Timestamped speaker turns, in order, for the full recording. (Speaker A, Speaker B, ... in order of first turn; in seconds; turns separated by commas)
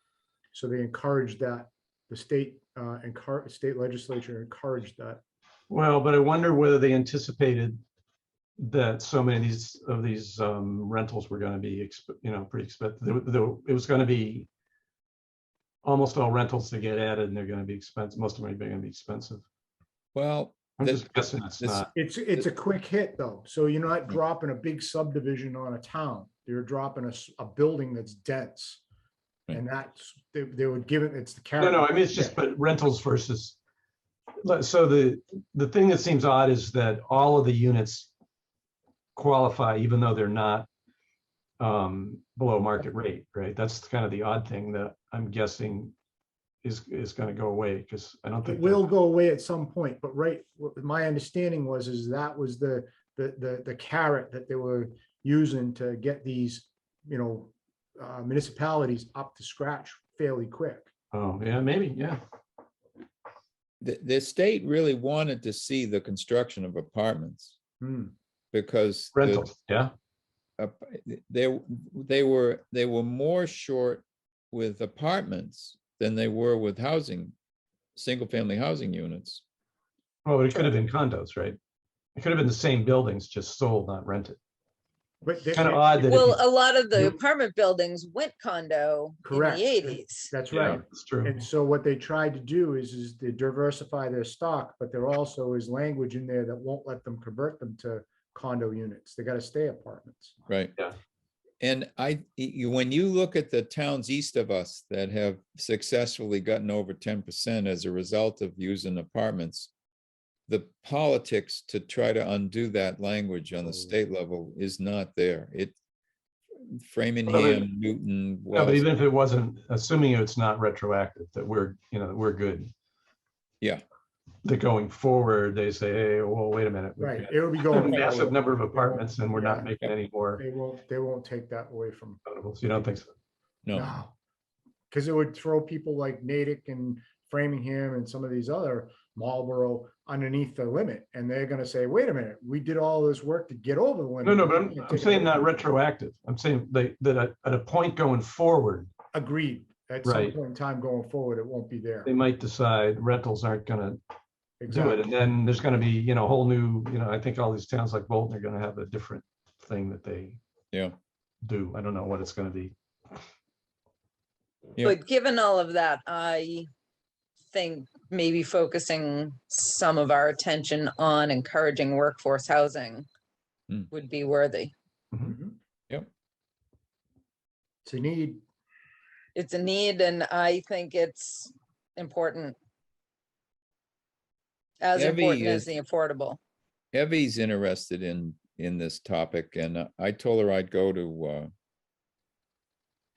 Speaker A: 0.5-5.2, Speaker B: 5.7-7.8, Speaker B: 8.6-14.5, Speaker B: 15.8-19.4, Speaker C: 20.1-22.4, Speaker B: 20.8-21.9, Speaker A: 21.9-28.8, Speaker A: 29.5-32.4, Speaker B: 31.6-33.6, Speaker B: 34.4-38.1, Speaker B: 39.1-40.7, Speaker B: 41.6-45.9, Speaker B: 46.6-48.9, Speaker A: 48.4-60.9, Speaker B: 61.1-62.2, Speaker C: 63.8-67.6, Speaker A: 67.8-68.1, Speaker C: 68.5-69.5, Speaker B: 69.1-69.9, Speaker C: 70.6-77.3, Speaker C: 78.0-79.4, Speaker B: 80.2-81.6, Speaker B: 82.2-84.4, Speaker A: 85.2-86.1, Speaker B: 85.5-86.4, Speaker D: 86.1-90.3, Speaker A: 89.2-100.4, Speaker B: 90.5-91.5, Speaker C: 100.5-100.7, Speaker C: 101.6-109.7, Speaker C: 110.5-115.8, Speaker C: 116.6-118.9, Speaker B: 117.2-117.7, Speaker B: 118.5-122.7, Speaker B: 124.4-130.4, Speaker A: 127.0-129.7, Speaker C: 127.7-128.3, Speaker A: 130.3-132.2, Speaker B: 132.2-133.1, Speaker C: 133.6-133.9, Speaker A: 133.7-134.1, Speaker A: 134.9-145.5, Speaker B: 144.2-148.9, Speaker A: 149.1-152.1, Speaker B: 150.0-150.4, Speaker B: 152.0-154.0, Speaker A: 154.6-155.1, Speaker B: 154.7-160.4, Speaker B: 161.4-162.7, Speaker D: 164.8-166.7, Speaker D: 167.5-173.1, Speaker D: 173.9-174.7, Speaker A: 175.2-175.6, Speaker A: 177.8-178.4, Speaker D: 179.3-182.6, Speaker D: 184.8-186.4, Speaker C: 184.9-185.7, Speaker C: 186.9-191.5